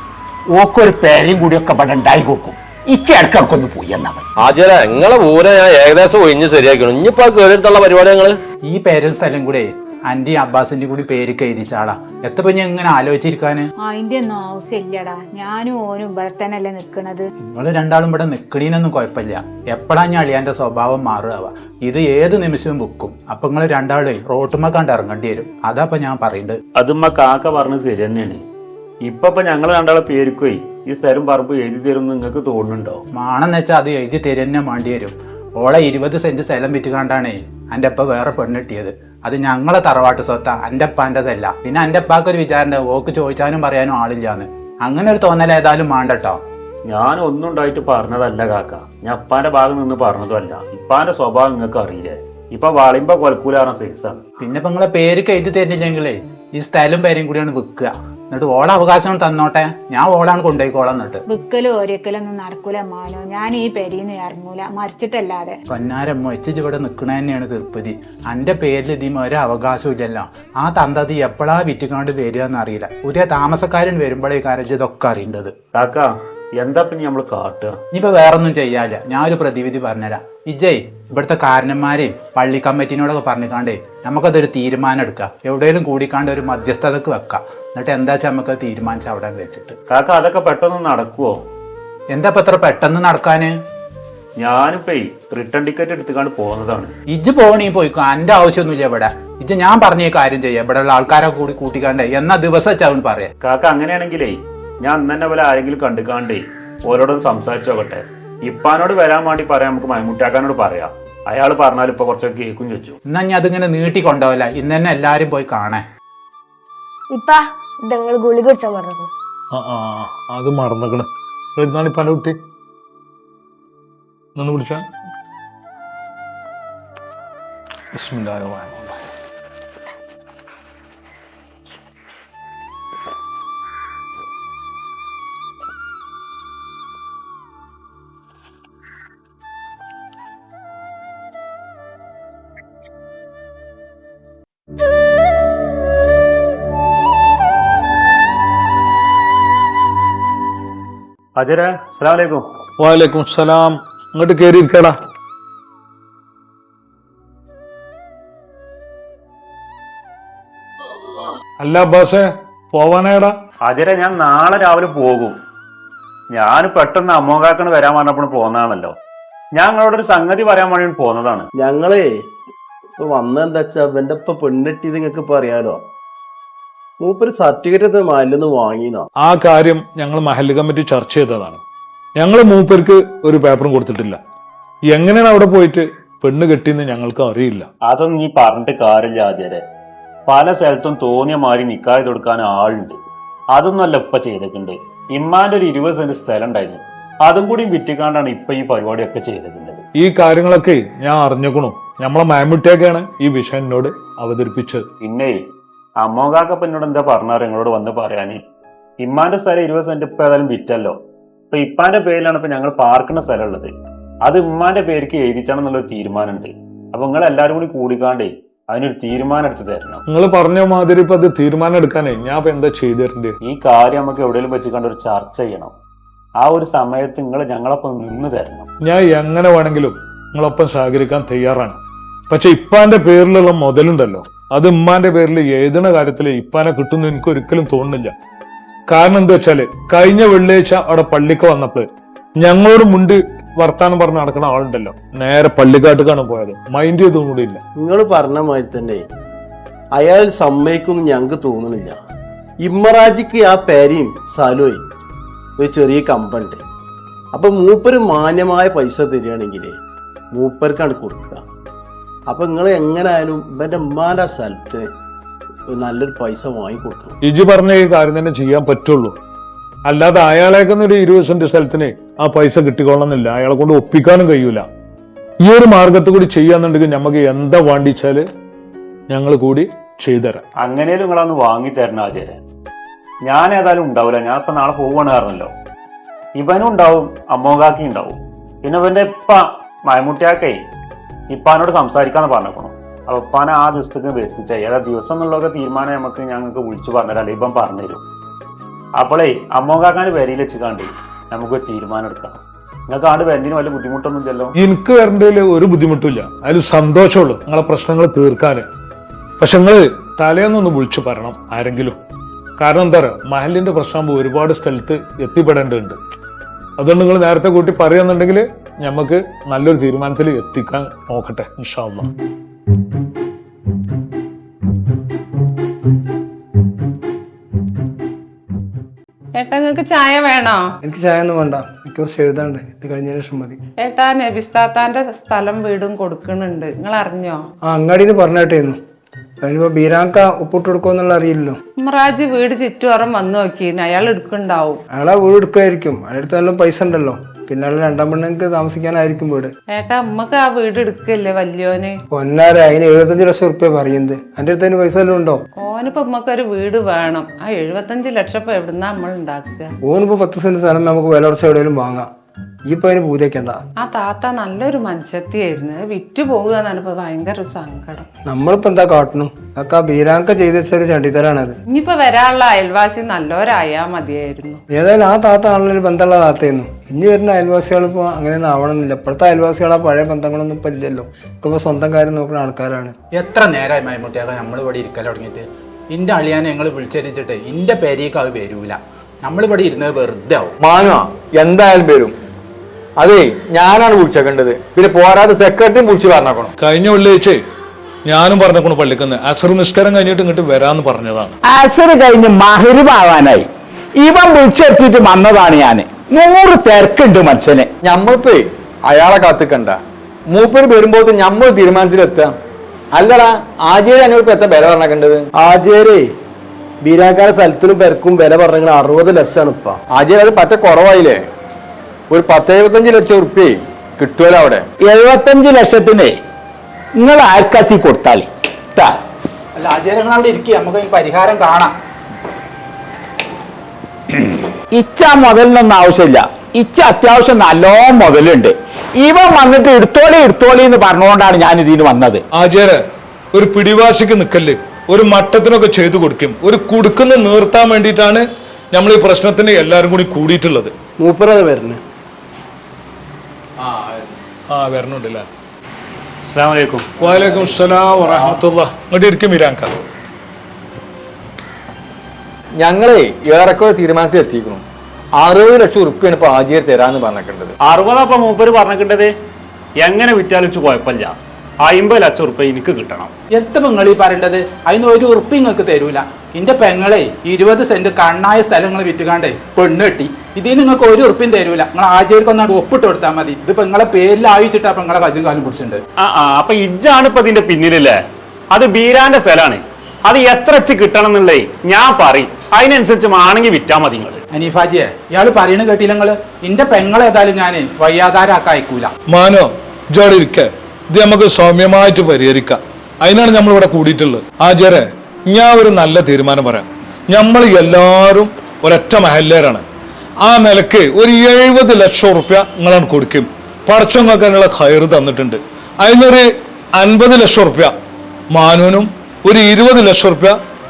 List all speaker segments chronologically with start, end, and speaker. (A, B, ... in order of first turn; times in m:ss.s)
0:00.6-0:04.2 A
0:04.4-0:08.4 B
0:08.7-0:13.7 C
0:13.8-0:17.3 D
0:17.5-0:26.6 C
0:26.8-0:28.4 E
0:29.0-0:33.0 E
0:33.2-0:46.4 C
0:46.9-0:54.2 E
0:54.4-1:01.2 C
1:01.3-1:05.6 D
1:05.7-1:15.5 C
1:15.7-1:17.8 E
1:17.9-1:29.7 C
1:29.9-1:31.4 E
1:32.1-1:33.5 C
1:34.4-1:36.9 E
1:37.1-1:43.3 C
1:43.4-1:53.0 E
1:53.1-1:55.8 C
1:57.1-1:59.1 F
1:59.5-2:02.4 G
2:04.4-2:04.8 G
2:07.9-2:08.7 G
2:31.4-2:32.4 E
2:32.8-2:34.9 G
2:41.6-2:43.3 G
2:43.6-2:45.4 E
2:46.3-2:48.9 E
2:49.6-2:51.5 E
2:51.6-2:52.1 H
2:53.0-2:55.8 H
2:57.0-2:59.1 H
2:59.2-3:01.6 G
3:02.2-3:04.2 G
3:04.9-3:07.7 G
3:07.8-3:09.6 E
3:10.3-3:13.0 E
3:13.5-3:19.8 E
3:20.0-3:24.8 G
3:25.0-3:25.4 E
3:26.0-3:28.4 E
3:29.0-3:31.0 E
3:31.5-3:33.7 E
3:34.2-3:40.0 E
3:40.1-3:43.3 G
3:43.4-3:45.7 E
3:46.4-3:48.7 E
3:48.8-3:58.1 G
3:58.9-4:01.9 G
4:02.4-4:07.6 G
4:07.8-4:09.0 H
4:10.0-4:12.0 H
4:12.6-4:14.8 H
4:15.6-4:16.6 H
4:17.3-4:19.8 H
4:20.3-4:21.4 H
4:22.3-4:24.9 H
4:25.7-4:27.1 H
4:27.2-4:29.1 G
4:29.8-4:34.6 G
4:35.4-4:38.2 G
4:39.1-4:40.4 G
4:40.6-4:42.4 E
4:43.2-4:45.5 E
4:46.4-4:50.6 E
4:51.3-4:58.0 E
4:59.0-5:04.5 E
5:04.6-5:08.6 G
5:09.4-5:12.0 G
5:12.6-5:16.0 G
5:16.8-5:22.1 G
5:29.4-5:30.6 I
5:30.8-5:33.6 J
5:33.8-5:37.4 I
5:37.6-5:38.8 J
5:39.4-5:41.6 J
5:41.8-5:44.8 I
5:44.9-5:49.5 J
5:49.7-5:52.0 I
5:52.1-5:55.4 J
5:55.6-5:59.7 I
5:59.8-6:02.1 J
6:02.7-6:03.6 J
6:03.8-6:08.0 I
6:08.3-6:11.6 J
6:11.7-6:14.6 I
6:14.7-6:22.9 J
6:23.1-6:30.6 C
6:30.6-6:32.1 K
6:33.0-6:36.5 K
6:36.6-6:37.4 G
6:38.0-6:41.3 G
6:41.6-6:43.4 A
6:42.7-6:43.1 C
6:44.0-6:46.0 C
6:44.1-6:47.6 A
6:46.6-6:47.6 C
6:47.8-6:49.8 K
6:50.3-6:52.3 K
6:53.0-6:55.2 K
6:55.4-6:56.1 H
6:56.8-6:59.8 H
6:59.9-7:01.2 K
7:02.1-7:04.6 K
7:04.9-7:06.1 A
7:07.0-7:08.9 A
7:09.6-7:11.7 C
7:14.7-7:22.2 A
7:22.3-7:22.8 G
7:23.3-7:30.7 G
7:31.0-7:31.8 H
7:33.6-7:34.1 K
7:34.5-7:35.2 G
7:36.3-7:36.9 E
7:37.0-7:39.7 G
7:42.6-7:44.6 K
7:45.2-7:47.5 K
7:47.6-7:49.1 E
7:49.8-7:53.1 E
7:53.3-8:05.8 C
8:06.0-8:08.0 E
8:08.5-8:14.2 E
8:14.3-8:18.9 C
8:19.1-8:29.6 G
8:30.2-8:37.7 G
8:38.3-8:40.3 G